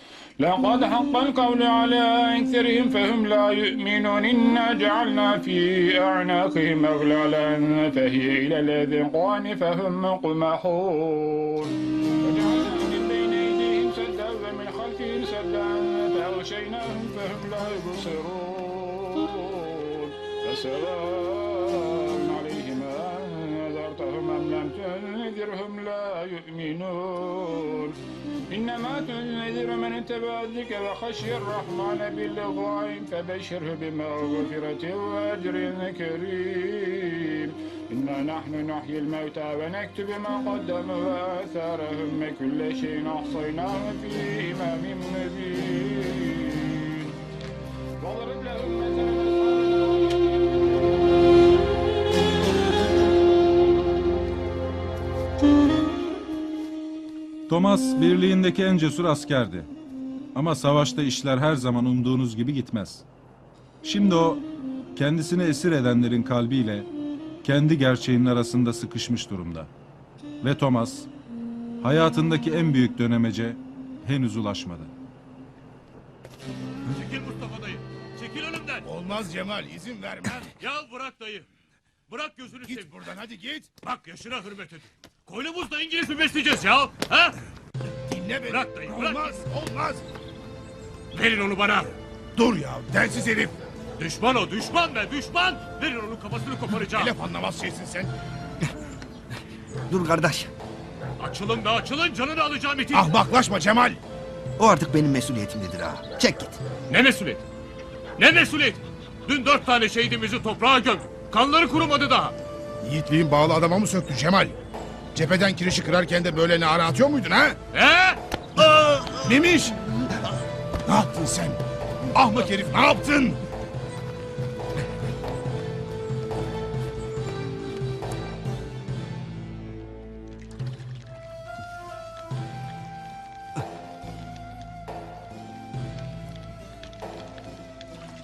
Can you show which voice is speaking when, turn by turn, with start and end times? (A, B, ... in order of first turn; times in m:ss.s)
0:00.4-0:28.0 A
0:28.5-0:47.2 A
0:48.0-0:50.7 A
0:57.5-0:59.7 B
1:00.4-1:03.0 B
1:03.8-1:04.4 B
1:05.0-1:06.9 B
1:07.4-1:09.7 B
1:10.4-1:11.1 B
1:11.8-1:14.9 B
1:16.9-1:18.9 C
1:18.8-1:20.5 D
1:20.6-1:21.5 C
1:22.1-1:23.0 C
1:22.7-1:23.7 D
1:23.8-1:27.4 C
1:28.1-1:30.0 D
1:28.5-1:29.4 C
1:31.1-1:32.0 C
1:32.4-1:33.6 D
1:34.0-1:37.1 C
1:36.9-1:38.1 D
1:39.9-1:40.5 E
1:41.2-1:43.1 C
1:42.9-1:44.0 D
1:44.6-1:46.6 E
1:46.9-1:47.4 C
1:48.2-1:52.4 C
1:52.8-1:54.6 D
1:55.1-1:57.6 D
1:57.7-1:59.2 C
1:59.2-1:59.8 D
2:00.9-2:03.4 D